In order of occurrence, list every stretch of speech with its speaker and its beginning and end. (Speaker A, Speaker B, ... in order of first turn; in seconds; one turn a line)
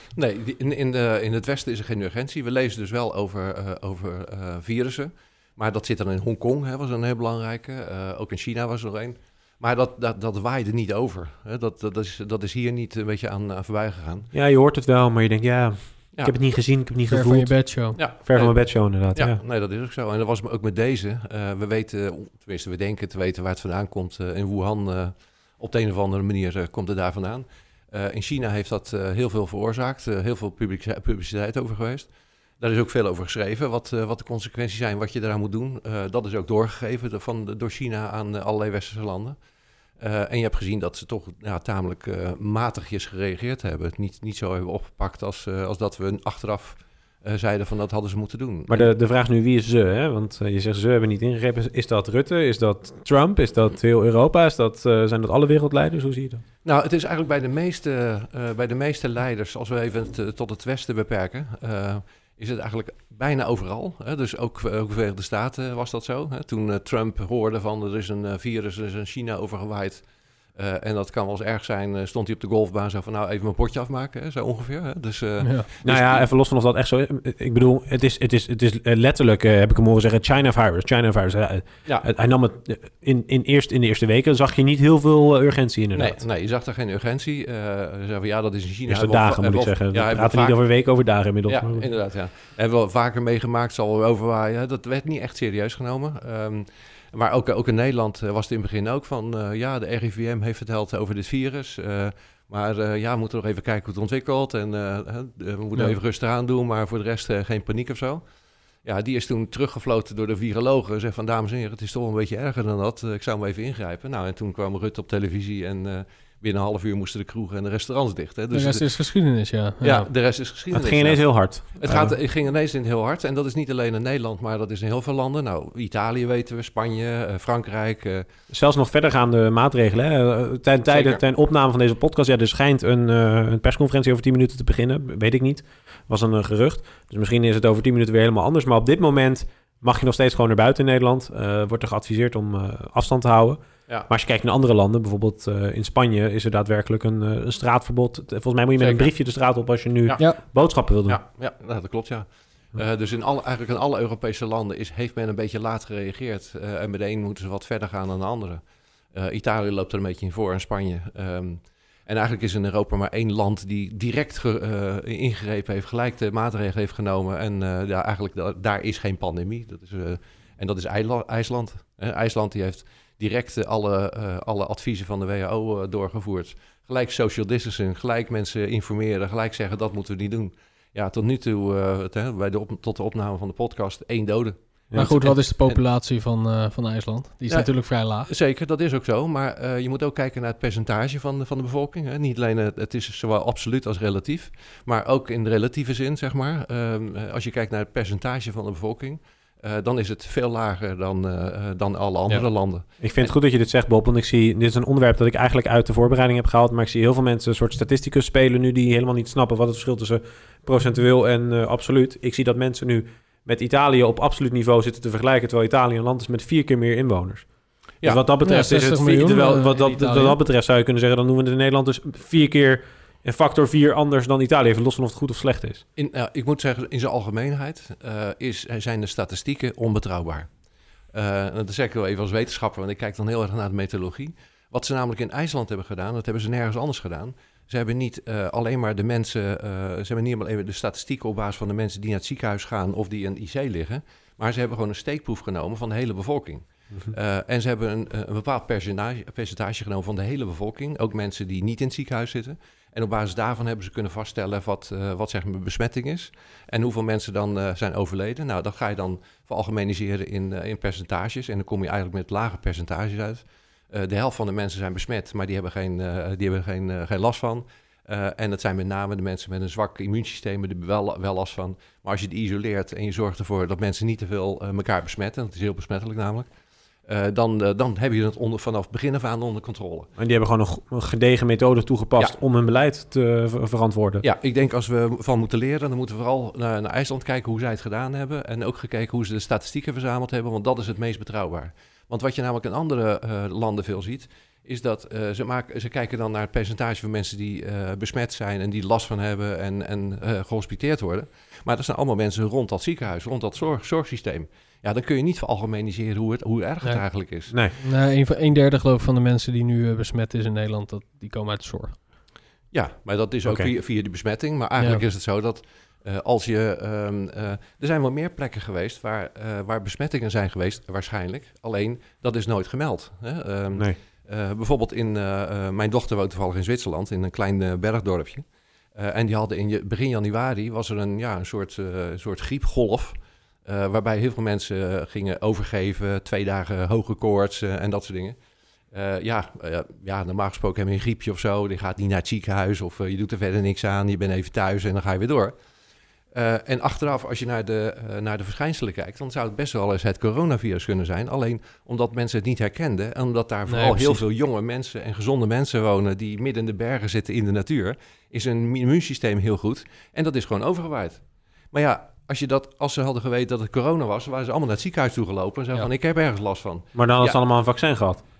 Speaker A: 0.1-14.3
Speaker B: 14.3-17.6
Speaker C: 17.1-18.0
Speaker A: 17.9-32.1
Speaker B: 18.2-19.4
Speaker A: 32.6-39.4
Speaker A: 40.0-48.9
Speaker B: 48.7-56.4
Speaker A: 56.6-70.0
Speaker A: 70.5-76.2
Speaker C: 75.4-75.7
Speaker B: 75.8-86.2
Speaker A: 85.9-90.6
Speaker B: 88.9-91.8
Speaker A: 91.5-108.2
Speaker A: 108.8-118.8
Speaker C: 118.5-120.1
Speaker A: 119.8-128.3
Speaker B: 120.7-122.2
Speaker B: 128.5-151.2
Speaker A: 130.9-131.2
Speaker A: 148.8-149.1
Speaker A: 151.1-158.6
Speaker A: 159.1-185.8
Speaker C: 184.9-188.3
Speaker A: 188.2-203.0
Speaker B: 203.0-217.5
Speaker B: 218.0-225.8
Speaker C: 218.4-220.4
Speaker A: 225.9-230.5
Speaker A: 231.1-276.5
Speaker A: 277.1-280.1
Speaker B: 280.2-284.2
Speaker A: 284.2-307.5
Speaker C: 307.8-312.0
Speaker A: 312.7-328.4
Speaker A: 328.9-338.4
Speaker A: 338.9-345.5
Speaker A: 346.3-367.4
Speaker C: 353.7-354.2
Speaker B: 366.9-368.2